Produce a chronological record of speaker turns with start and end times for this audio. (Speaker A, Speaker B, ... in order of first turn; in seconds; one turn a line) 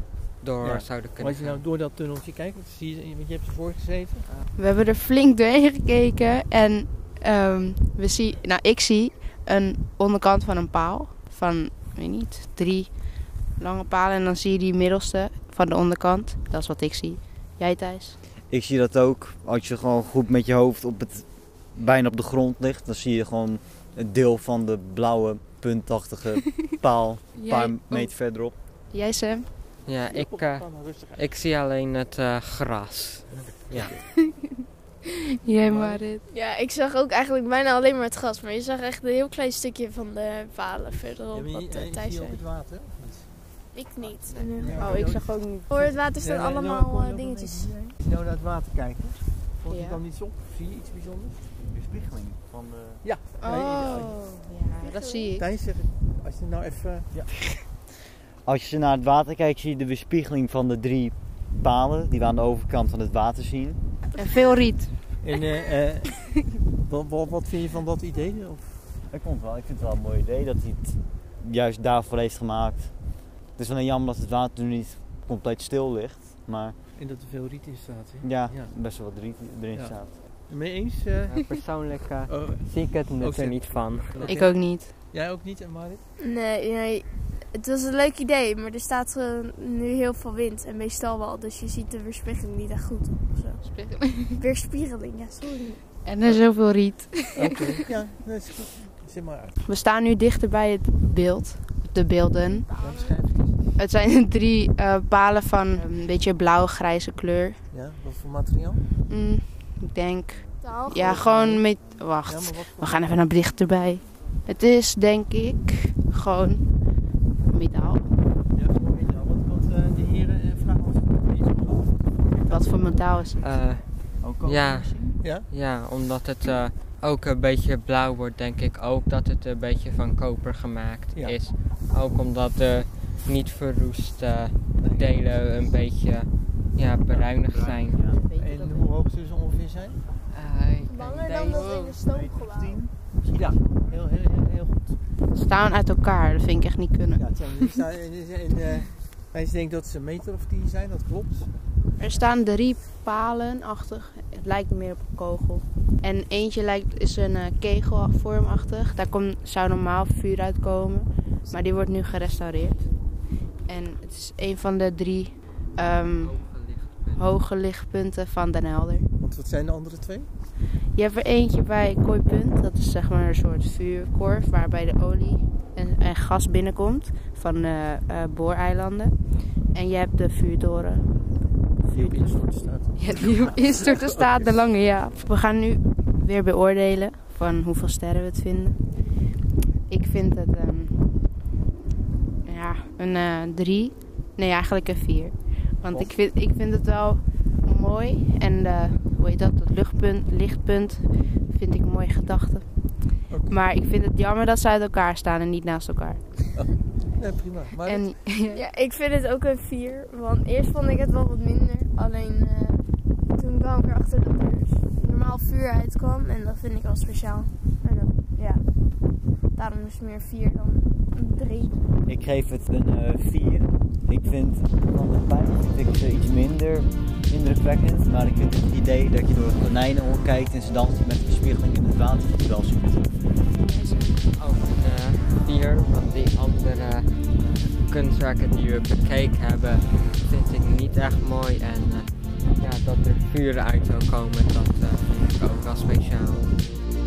Speaker A: 0.4-1.6
Speaker B: 0.6-4.3
Speaker C: 4.6-12.9
Speaker C: 13.6-18.2
Speaker D: 18.5-28.5
Speaker C: 27.4-28.1
Speaker C: 28.9-29.5
Speaker A: 29.9-30.6
Speaker B: 29.9-31.3
Speaker A: 31.2-33.9
Speaker B: 33.3-34.0
Speaker C: 34.2-34.5
Speaker C: 35.3-36.2
Speaker B: 35.6-36.1
Speaker E: 36.3-42.4
Speaker B: 41.3-43.3
Speaker E: 43.7-44.9
Speaker D: 44.0-45.0
Speaker B: 44.6-45.3
Speaker C: 44.8-46.1
Speaker E: 45.7-47.7
Speaker B: 46.2-51.4
Speaker C: 49.7-50.0
Speaker D: 51.6-53.0
Speaker B: 53.0-54.2
Speaker C: 53.4-55.5
Speaker E: 54.8-55.4
Speaker B: 55.4-57.1
Speaker D: 58.5-63.8
Speaker E: 64.2-64.5
Speaker C: 64.2-64.9
Speaker B: 65.2-66.2
Speaker B: 66.8-68.8
Speaker D: 69.1-72.9
Speaker D: 73.6-76.8
Speaker B: 77.0-78.7
Speaker D: 78.2-80.1
Speaker B: 80.5-81.4
Speaker A: 81.3-84.3
Speaker B: 82.3-86.0
Speaker C: 84.3-84.9
Speaker E: 86.2-93.6
Speaker C: 93.6-94.4
Speaker E: 94.3-95.8
Speaker C: 96.0-97.7
Speaker B: 97.3-99.6
Speaker C: 99.6-102.7
Speaker E: 102.4-103.2
Speaker B: 102.7-103.8
Speaker C: 103.8-107.6
Speaker B: 107.7-109.0
Speaker C: 109.0-116.7
Speaker E: 110.6-111.1
Speaker B: 111.0-111.7
Speaker B: 112.2-113.2
Speaker C: 117.5-118.1
Speaker B: 118.5-122.8
Speaker C: 122.5-123.4
Speaker A: 123.4-123.9
Speaker D: 124.2-125.2
Speaker A: 124.4-138.0
Speaker B: 125.2-125.5
Speaker B: 131.1-131.4
Speaker B: 134.8-135.4
Speaker D: 137.5-138.2
Speaker C: 138.0-138.9
Speaker B: 138.4-140.0
Speaker A: 140.3-141.8
Speaker E: 140.9-142.8
Speaker D: 142.1-143.4
Speaker B: 143.3-145.0
Speaker C: 145.3-147.2
Speaker B: 147.2-151.5
Speaker C: 152.0-162.8
Speaker C: 163.7-166.4
Speaker A: 166.2-167.3
Speaker C: 167.2-169.1
Speaker B: 169.2-170.3
Speaker C: 170.9-179.2
Speaker C: 179.7-181.0
Speaker B: 181.9-184.4
Speaker C: 181.9-182.3
Speaker C: 183.0-188.8
Speaker C: 189.9-191.0
Speaker C: 192.5-202.7
Speaker B: 203.3-203.6
Speaker C: 203.5-206.2
Speaker B: 206.5-208.2
Speaker C: 207.8-208.6
Speaker E: 208.5-218.6
Speaker E: 219.6-221.8
Speaker D: 222.1-233.1
Speaker C: 233.6-234.2
Speaker A: 234.2-246.5